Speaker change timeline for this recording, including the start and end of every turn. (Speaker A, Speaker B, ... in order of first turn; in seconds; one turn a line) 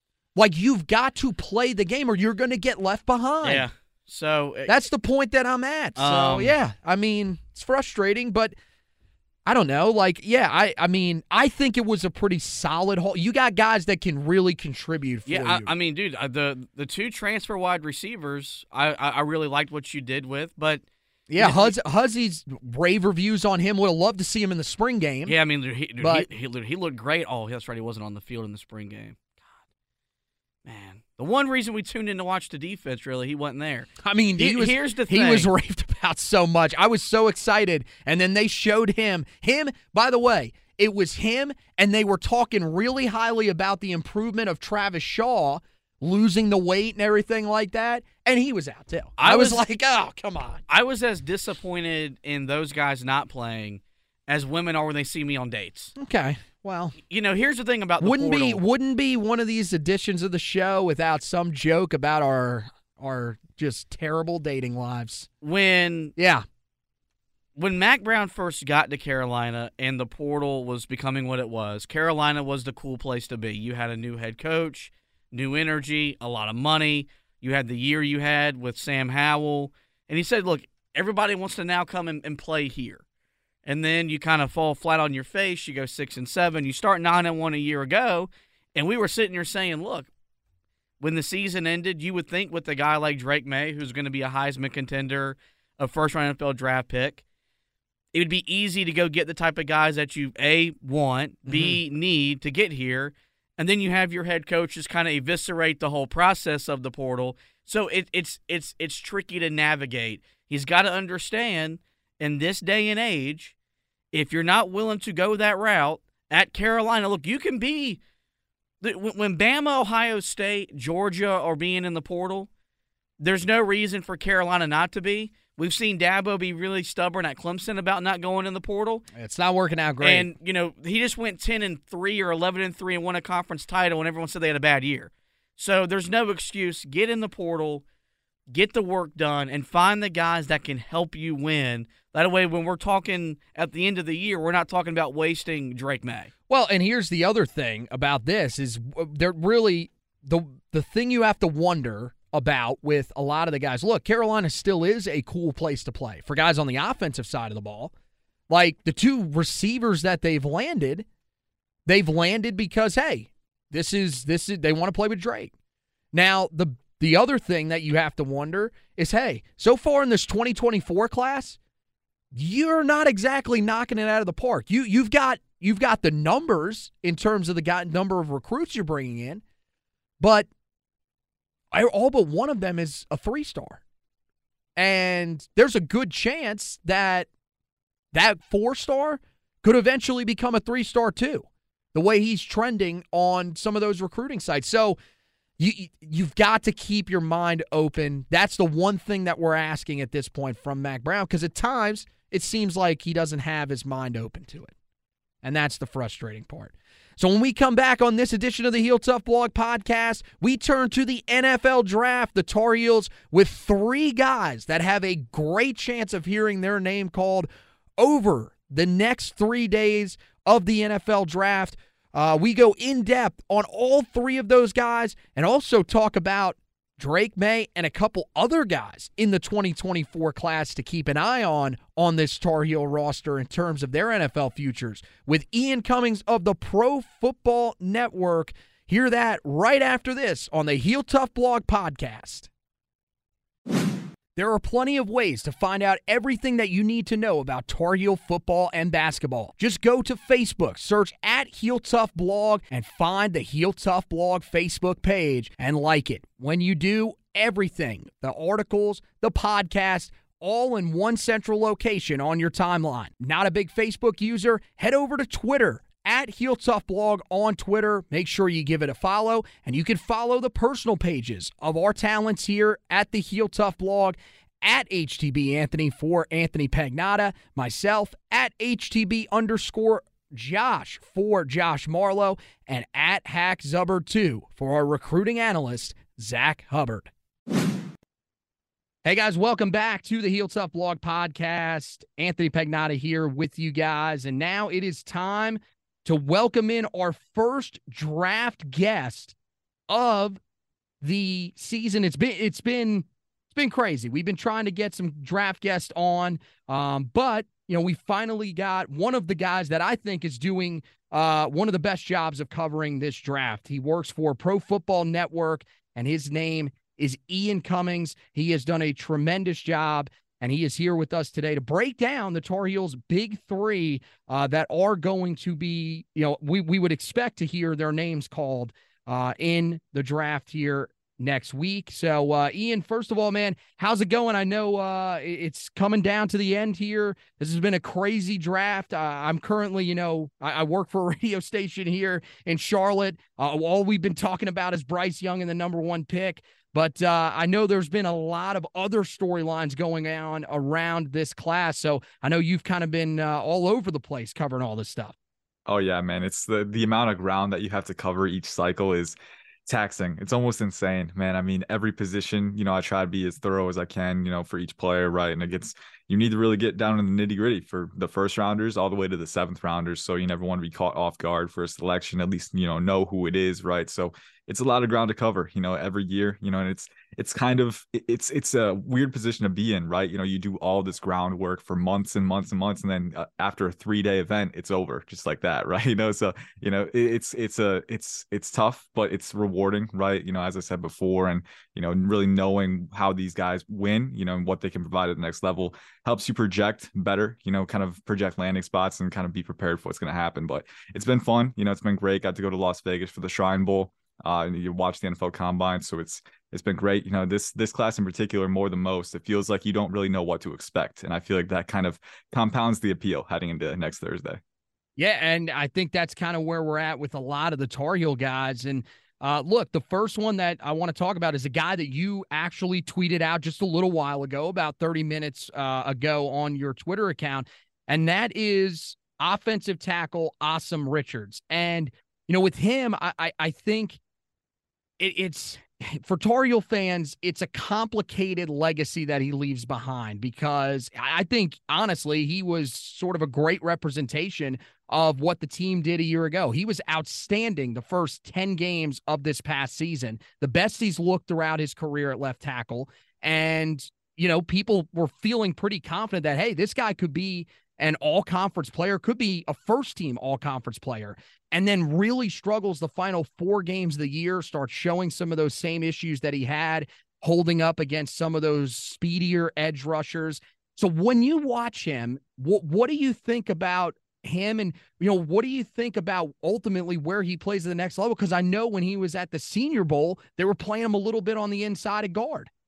Speaker A: 0.3-3.6
Speaker B: 3.4-4.7
Speaker A: 4.7-8.5
Speaker B: 6.0-6.5
Speaker A: 9.4-15.7
Speaker B: 15.2-20.8
Speaker A: 21.3-25.4
Speaker B: 21.4-21.7
Speaker B: 25.2-29.5
Speaker A: 26.0-26.3
Speaker B: 30.6-35.5
Speaker A: 34.0-50.6
Speaker B: 49.2-49.6
Speaker B: 50.7-55.9
Speaker A: 56.0-57.0
Speaker B: 57.1-58.6
Speaker A: 58.0-65.3
Speaker B: 65.4-66.1
Speaker A: 66.2-66.4
Speaker B: 67.5-83.0
Speaker B: 83.7-90.1
Speaker B: 91.0-97.2
Speaker B: 98.1-113.5
Speaker A: 101.5-101.8
Speaker B: 114.1-118.0
Speaker B: 118.8-122.5
Speaker B: 123.2-129.1
Speaker A: 129.1-130.3
Speaker B: 130.0-137.8
Speaker B: 138.5-146.3
Speaker A: 146.5-157.9
Speaker A: 158.5-161.1
Speaker A: 161.8-165.5
Speaker A: 166.1-171.6
Speaker A: 172.3-179.4
Speaker A: 180.2-180.5
Speaker A: 181.7-183.8
Speaker A: 184.8-187.3
Speaker A: 188.1-195.0
Speaker A: 195.6-204.7
Speaker A: 205.4-242.5
Speaker A: 244.3-287.1
Speaker A: 289.0-299.3
Speaker A: 299.9-300.4
Speaker A: 301.0-355.1
Speaker C: 355.7-359.1
Speaker C: 359.7-414.4
Speaker A: 415.0-434.0
Speaker A: 435.0-482.5